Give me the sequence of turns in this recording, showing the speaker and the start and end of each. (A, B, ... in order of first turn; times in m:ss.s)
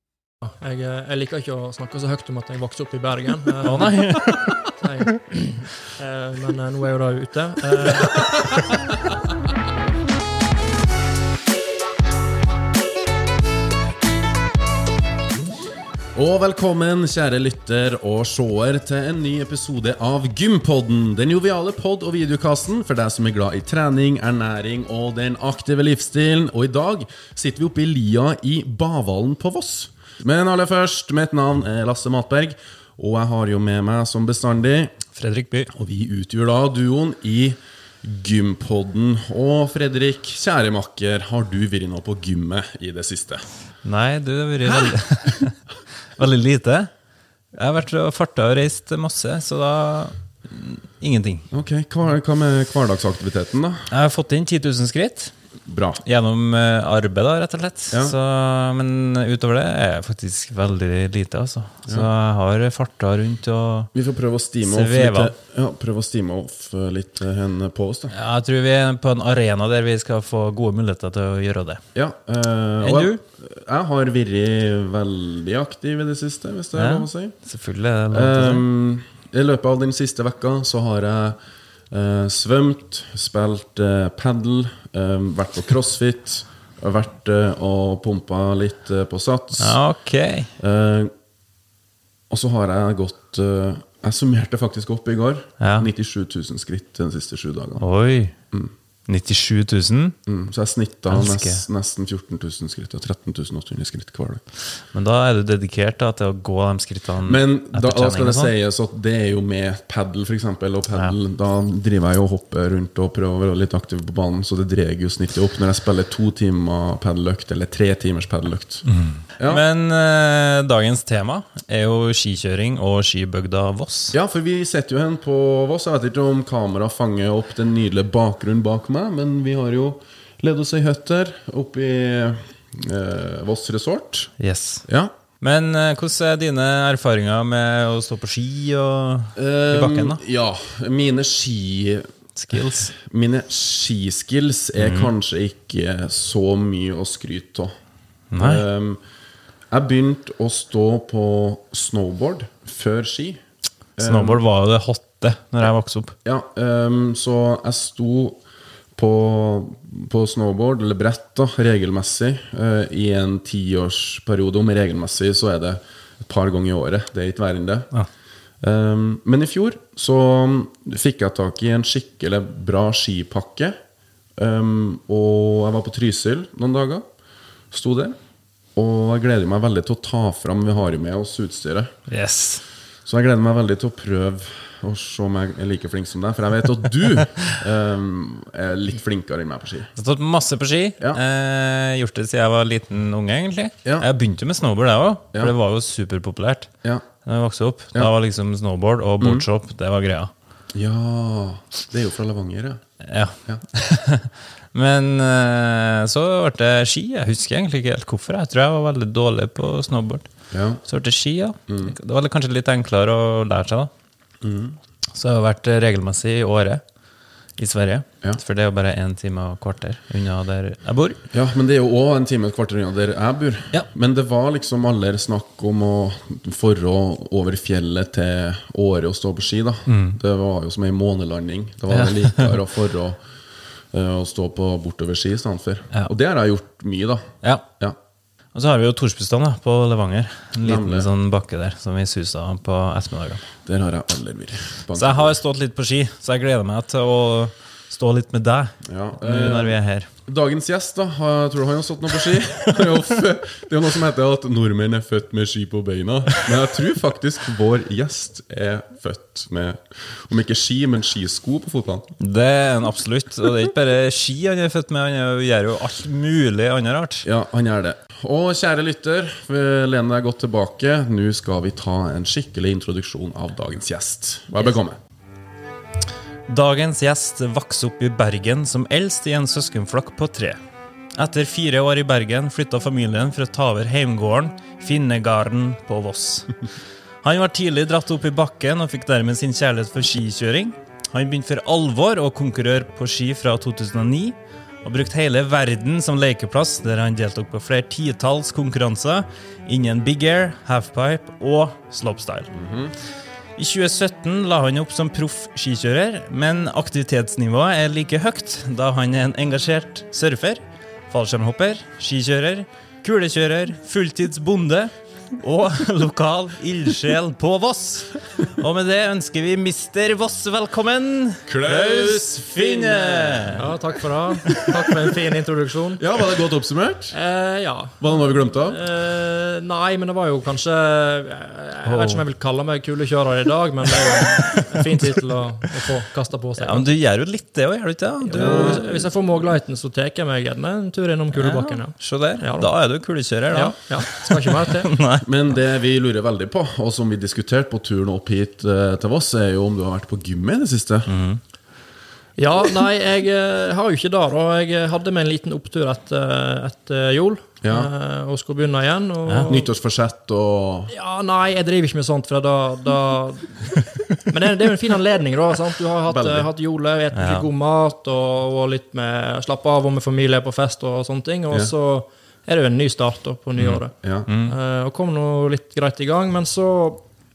0:00.4-0:08.2 A
0:03.6-0:04.6 B
0:16.1-0:34.9 C
0:35.2-0:35.7 B
0:35.7-0:43.4 C
0:43.8-0:45.5 B
0:46.1-0:46.9 B
0:47.5-0:51.5 B
0:51.5-0:53.9 C
0:53.9-0:55.3 B
0:55.7-0:56.0 C
0:56.0-1:03.9 B
1:03.9-1:08.1 C
1:04.6-1:05.3 B
1:08.1-1:11.8 B
1:11.9-1:17.4 C
1:12.8-1:13.2 B
1:16.8-1:18.6 B
1:18.1-1:21.4 C
1:21.9-1:29.8 C
1:29.6-1:30.5 B
1:30.6-1:31.1 C
1:32.3-1:37.8 C
1:35.6-1:35.9 B
1:37.8-1:38.3 B
1:39.1-1:40.2 B
1:40.2-1:44.4 C
1:41.1-1:41.6 B
1:44.9-1:48.5 B
1:47.2-1:58.8 C
1:58.9-2:04.1 B
1:59.4-1:59.6 C
2:04.1-2:14.3 C
2:14.4-2:14.8 B
2:14.8-2:15.1 C
2:15.4-2:20.2 B
2:19.3-2:27.7 C
2:22.4-2:22.9 B
2:24.8-2:25.1 B
2:28.3-2:28.6 B
2:28.4-2:29.0 C
2:29.7-2:33.4 C
2:34.0-2:34.4 C
2:34.0-2:36.1 B
2:36.2-2:38.4 C
2:39.0-2:47.9 C
2:48.6-2:53.7 C
2:54.4-2:57.0 C
2:57.7-2:58.2 C
2:58.8-3:01.9 C
3:02.1-3:02.6 B
3:03.0-3:09.9 C
3:10.0-3:16.7 B
3:17.2-3:20.3 B
3:19.2-3:19.4 C
3:20.7-3:22.8 C
3:23.0-3:30.3 B
3:30.5-3:30.8 C
3:30.8-3:33.9 B
3:31.7-3:31.9 C
3:34.4-3:34.8 C
3:35.1-3:36.8 B
3:37.6-3:41.2 B
3:41.3-3:53.2 C
3:49.9-3:50.2 B
3:51.9-3:52.6 B
3:53.9-3:58.0 C
3:58.5-4:03.4 B
4:00.6-4:01.1 C
4:03.6-4:05.4 C
4:04.9-4:10.1 B
4:08.8-4:22.1 C
4:22.2-4:27.2 B
4:27.2-4:35.0 C
4:36.5-4:40.6 B
4:41.2-4:46.6 B
4:47.2-5:02.5 B
5:02.5-5:02.9 C
5:03.6-5:23.6 B
5:21.5-5:23.7 C
5:23.5-5:26.0 A
5:26.0-5:27.2 C
5:27.1-5:36.9 A
5:28.0-5:28.8 C
5:31.8-5:32.2 B
5:34.0-5:35.0 B
5:36.6-5:39.0 B
5:38.3-5:42.7 A
5:38.3-5:38.8 C
5:41.3-5:45.3 B
5:43.5-5:44.9 A
5:45.2-5:51.1 C
5:51.1-5:51.4 B
5:52.4-5:59.7 A
5:57.6-5:57.9 C
5:59.3-5:59.5 B
5:59.4-6:00.9 C
6:00.9-6:03.7 A
6:04.3-6:17.0 A
6:06.1-6:06.5 C
6:07.1-6:07.5 B
6:13.6-6:14.3 C
6:14.3-6:14.5 B